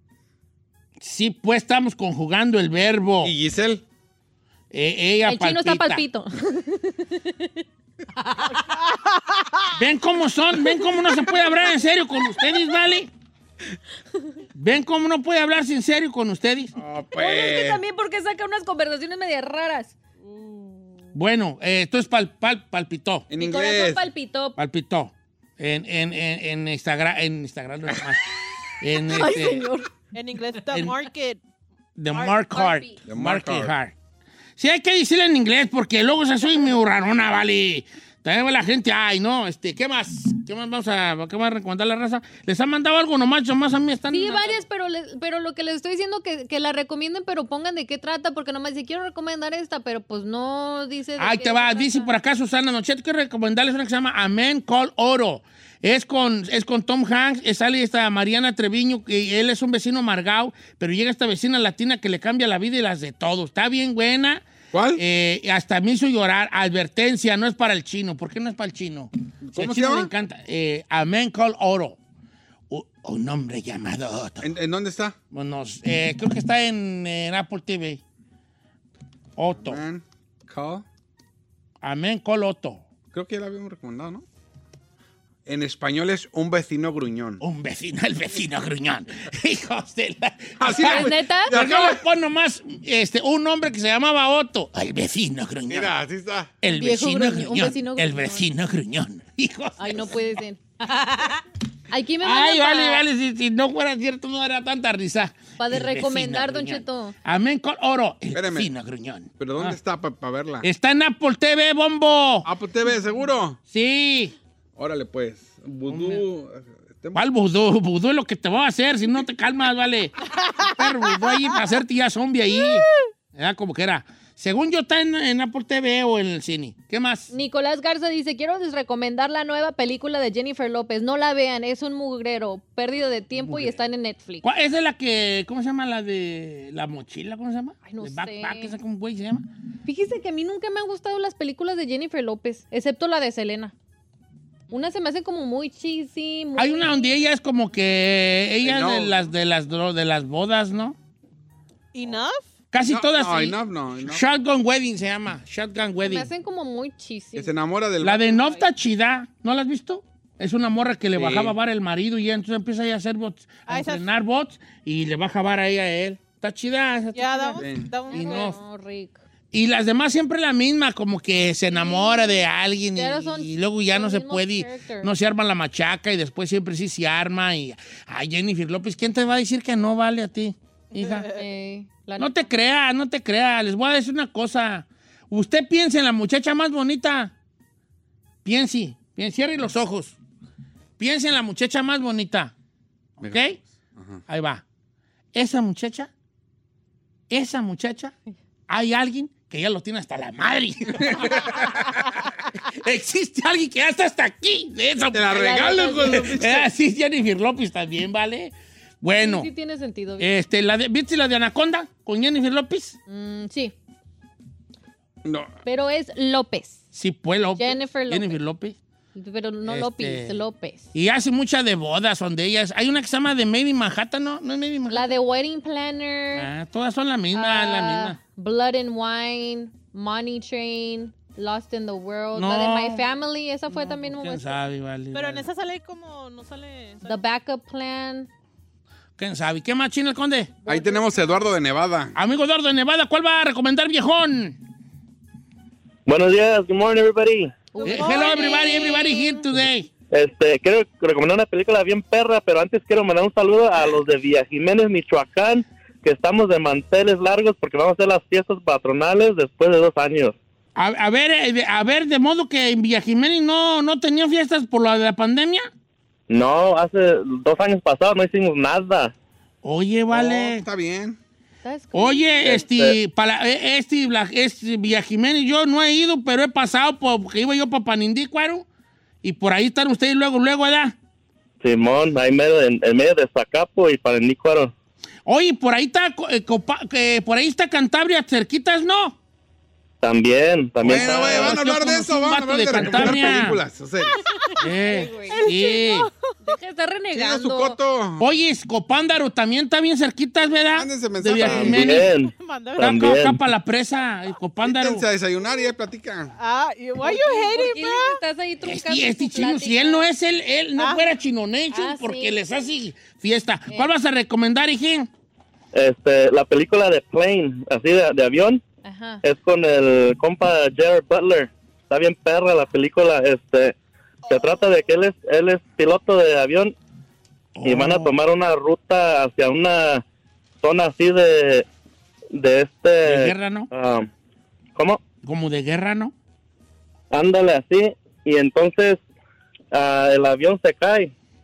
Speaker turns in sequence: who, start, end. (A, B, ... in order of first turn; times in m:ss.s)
0:01.0-0:03.3 A
0:03.2-0:03.8 B
0:04.7-0:06.0 A
0:05.2-0:07.5 C
0:09.7-0:13.1 A
0:14.6-0:16.7 A
0:16.8-0:17.8 B
0:17.2-0:20.0 C
0:21.1-0:23.3 A
0:23.3-0:24.1 B
0:23.4-0:24.6 C
0:24.6-0:28.2 A
0:28.8-0:29.6 A
0:29.1-0:29.9 C
0:30.1-0:31.4 D
0:30.7-0:31.0 A
0:32.0-0:33.9 A
0:32.1-0:32.5 D
0:32.6-0:33.0 C
0:33.1-0:33.7 B
0:34.6-0:44.6 A
0:44.1-0:52.1 C
0:51.2-1:04.4 A
1:04.7-1:05.0 B
1:05.0-1:12.0 A
1:09.4-1:10.1 B
1:12.7-1:14.5 A
1:14.4-1:15.2 B
1:15.3-1:18.0 A
1:19.4-1:19.8 A
1:19.6-1:20.8 B
1:21.8-1:22.8 A
1:23.1-1:24.2 B
1:25.5-1:27.4 B
1:27.4-1:35.9 A
1:30.6-1:32.0 B
1:30.8-1:31.6 C
1:35.7-1:36.6 B
1:36.6-1:40.2 A
1:36.6-1:38.5 C
1:39.8-1:41.4 C
1:41.9-1:43.0 C
1:42.2-1:49.8 A
1:45.6-1:47.2 C
1:48.3-1:48.7 B
1:49.4-1:50.7 B
1:50.6-1:52.5 A
1:52.4-1:53.6 B
1:53.7-1:54.4 A
1:54.8-1:57.2 B
1:55.9-1:56.2 A
1:57.1-2:07.3 A
2:07.3-2:14.4 C
2:13.4-2:13.8 A
2:14.4-2:19.5 A
2:17.8-2:18.8 C
2:19.8-2:23.7 C
2:24.7-2:27.2 C
2:26.6-2:31.0 A
2:28.6-2:29.2 B
2:31.9-2:32.4 D
2:32.7-2:36.3 A
2:32.8-2:34.2 B
2:36.0-2:37.5 C
2:37.4-2:38.6 B
2:38.0-2:47.6 A
2:41.2-2:41.6 B
2:43.7-2:44.1 D
2:47.1-2:48.6 D
2:47.2-2:49.2 C
2:47.6-2:47.9 B
2:48.1-2:48.6 A
2:49.5-3:01.3 A
2:51.7-2:55.1 C
3:01.1-3:01.4 D
3:01.2-3:02.5 C
3:02.2-3:07.3 A
3:08.4-3:10.2 A
3:11.0-3:12.5 A
3:13.2-3:13.6 A
3:13.2-3:14.2 B
3:14.3-3:14.6 A
3:15.3-3:16.1 A
3:17.3-3:18.1 A
3:18.7-3:21.8 A
3:21.0-3:22.0 B
3:22.5-3:25.5 A
3:25.1-3:26.7 B
3:25.3-3:26.4 C
3:26.0-3:29.5 A
3:29.2-3:30.3 C
3:30.2-3:33.0 A
3:33.1-3:33.7 C
3:35.2-3:35.5 B
3:35.6-3:36.8 C
3:36.9-3:38.8 A
3:37.6-3:38.4 C
3:39.2-3:40.9 C
3:39.6-3:45.1 A
3:44.9-3:46.5 C
3:46.3-3:48.2 A
3:47.3-3:54.5 C
3:52.3-3:53.0 A
3:53.7-3:55.5 A
3:55.1-3:57.2 D
3:57.0-3:58.3 C
3:59.2-4:00.5 A
4:00.7-4:01.0 C
4:00.7-4:02.2 B
4:02.2-4:04.6 A
4:06.1-4:07.6 E
4:07.7-4:09.5 C
4:07.8-4:08.6 D
4:07.8-4:09.9 A
4:10.1-4:20.4 E
4:20.8-4:25.7 A
4:26.3-4:29.1 E
4:29.6-4:30.7 A
4:30.1-4:31.2 B
4:31.6-4:32.6 C
4:31.9-4:38.6 A
4:32.4-4:33.0 E
4:39.2-4:41.0 A
4:41.6-4:44.7 E
4:45.3-4:49.2 A
4:50.0-4:51.6 E
4:50.8-4:54.2 B
4:50.8-4:53.6 A
4:54.6-4:56.1 A
4:54.7-4:55.5 C
4:55.3-4:56.3 D
4:56.4-4:57.8 C
4:57.1-4:58.2 B
4:58.2-5:02.1 A
5:00.7-5:02.0 B
5:01.5-5:03.4 E
5:02.2-5:03.0 D
5:02.8-5:05.0 A
5:04.6-5:06.3 B
5:06.4-5:08.2 D
5:07.0-5:10.1 C
5:08.6-5:15.1 A
5:10.8-5:11.1 D
5:11.7-5:12.4 C
5:15.7-5:18.6 E
5:18.8-5:19.2 C
5:19.2-5:23.8 E
5:24.3-5:26.8 E
5:24.3-5:24.6 D
5:27.6-5:28.1 A
5:27.6-5:30.0 E
5:30.6-5:31.7 E
5:32.3-5:34.1 E
5:33.0-5:33.7 A
5:34.8-5:35.0 E
5:35.2-5:36.1 A
5:37.1-5:39.0 E
5:39.7-5:41.1 E